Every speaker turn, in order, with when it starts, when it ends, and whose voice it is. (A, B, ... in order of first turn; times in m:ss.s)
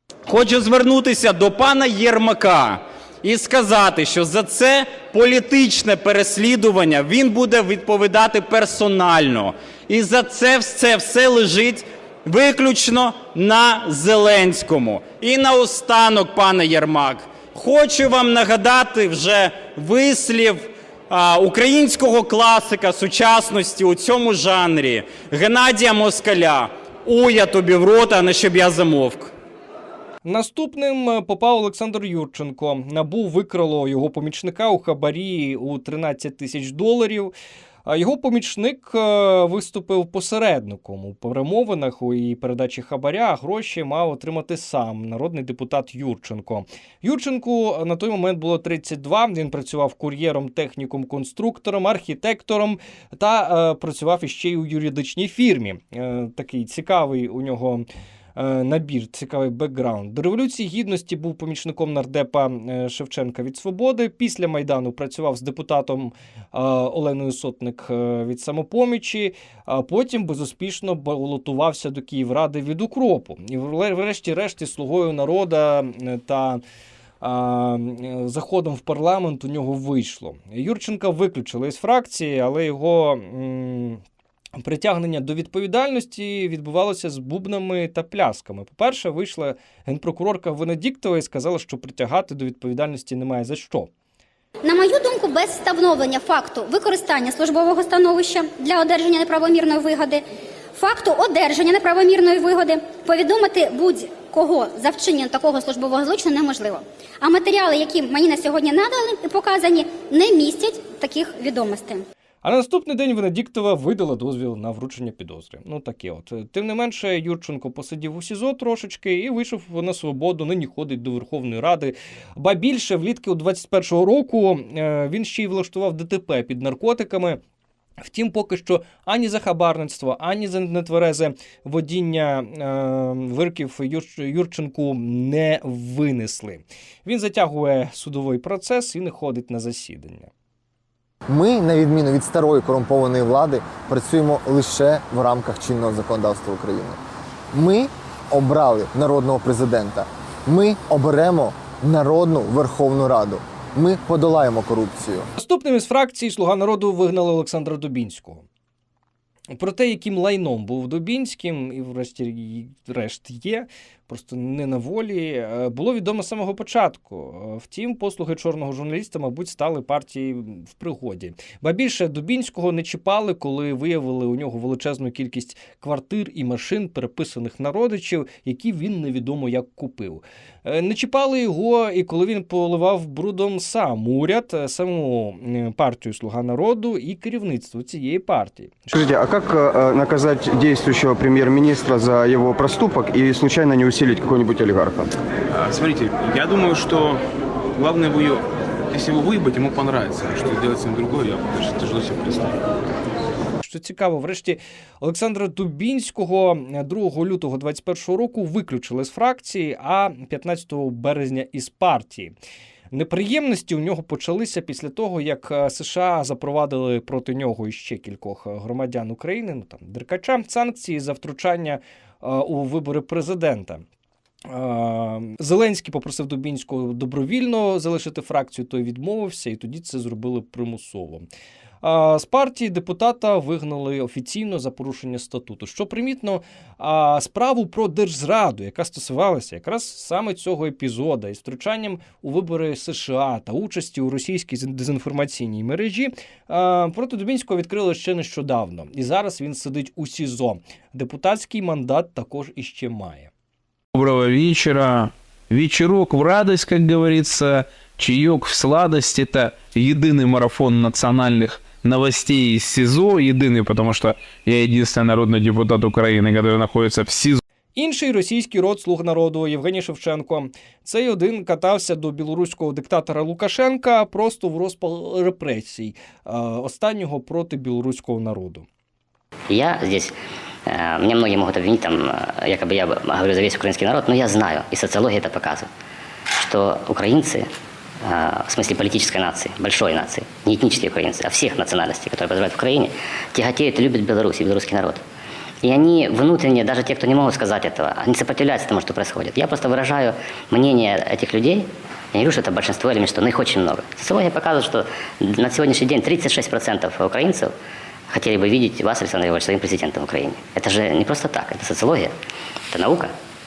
0:00.3-0:29.3 A
0:30.2-0:37.3 B
0:37.8-1:16.6 B
1:17.2-1:24.0 B
1:24.6-1:33.9 B
1:34.6-1:40.2 C
1:40.8-1:52.0 C
1:52.4-2:07.4 B
2:08.0-2:20.3 B
2:21.3-2:27.0 D
2:27.5-2:35.3 D
2:35.4-2:38.4 B
2:39.5-3:08.9 B
3:08.9-3:15.1 E
3:15.5-3:17.2 F
3:17.7-3:22.6 F
3:23.6-3:32.3 B
3:32.9-3:43.8 B
3:44.4-3:51.3 B
3:51.8-4:13.3 B
4:13.9-4:27.4 G
4:27.8-4:38.6 B
4:39.5-4:45.7 H
4:46.4-4:47.5 H
4:48.0-4:55.0 H
4:55.6-5:07.5 H
5:08.1-5:12.1 H
5:12.7-5:13.1 H